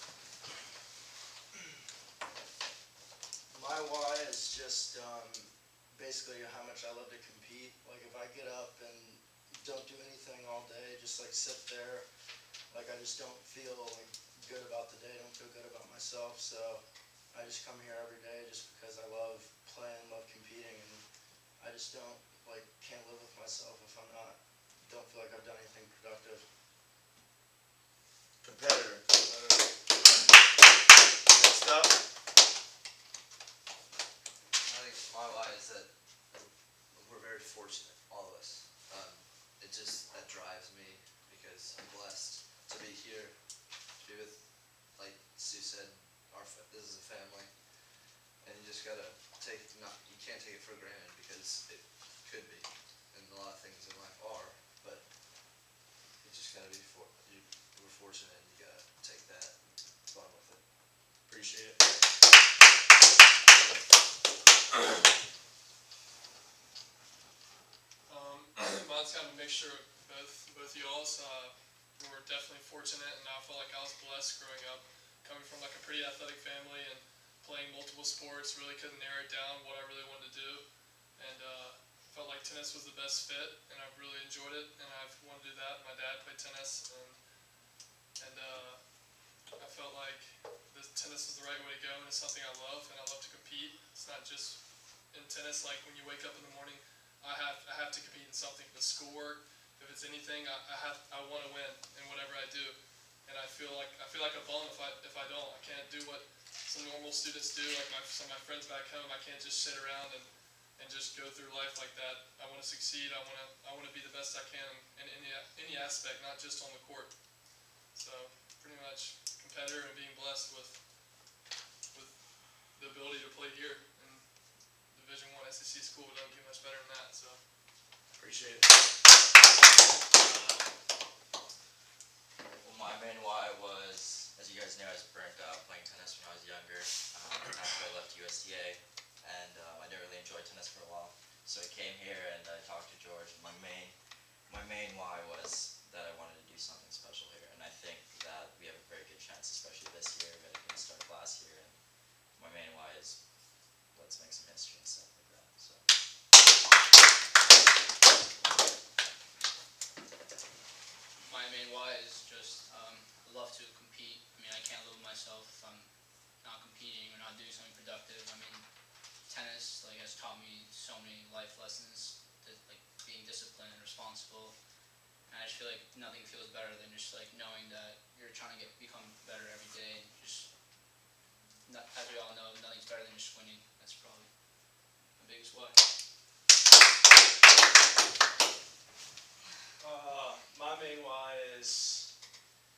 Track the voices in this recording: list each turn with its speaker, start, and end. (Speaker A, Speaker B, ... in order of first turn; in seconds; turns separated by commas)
Speaker A: 3.5-12.0, Speaker A: 12.7-16.8, Speaker A: 17.3-21.0, Speaker A: 21.6-26.4, Speaker B: 28.4-29.0, Speaker C: 29.1-29.7, Speaker B: 31.3-32.0, Speaker C: 34.6-43.4, Speaker C: 44.0-47.5, Speaker C: 48.4-55.1, Speaker C: 56.2-60.6, Speaker B: 61.3-61.8, Speaker D: 68.1-80.6, Speaker D: 81.2-87.2, Speaker D: 88.2-88.8, Speaker D: 89.5-94.6, Speaker D: 95.1-117.2, Speaker D: 117.9-120.8, Speaker D: 121.9-127.4, Speaker B: 128.2-128.7, Speaker E: 132.6-143.9, Speaker E: 144.5-151.8, Speaker E: 152.4-153.2, Speaker E: 153.9-155.8, Speaker F: 161.2-168.6, Speaker F: 169.3-174.6, Speaker F: 175.3-180.5, Speaker F: 181.7-184.3, Speaker F: 185.2-185.8, Speaker G: 189.8-192.1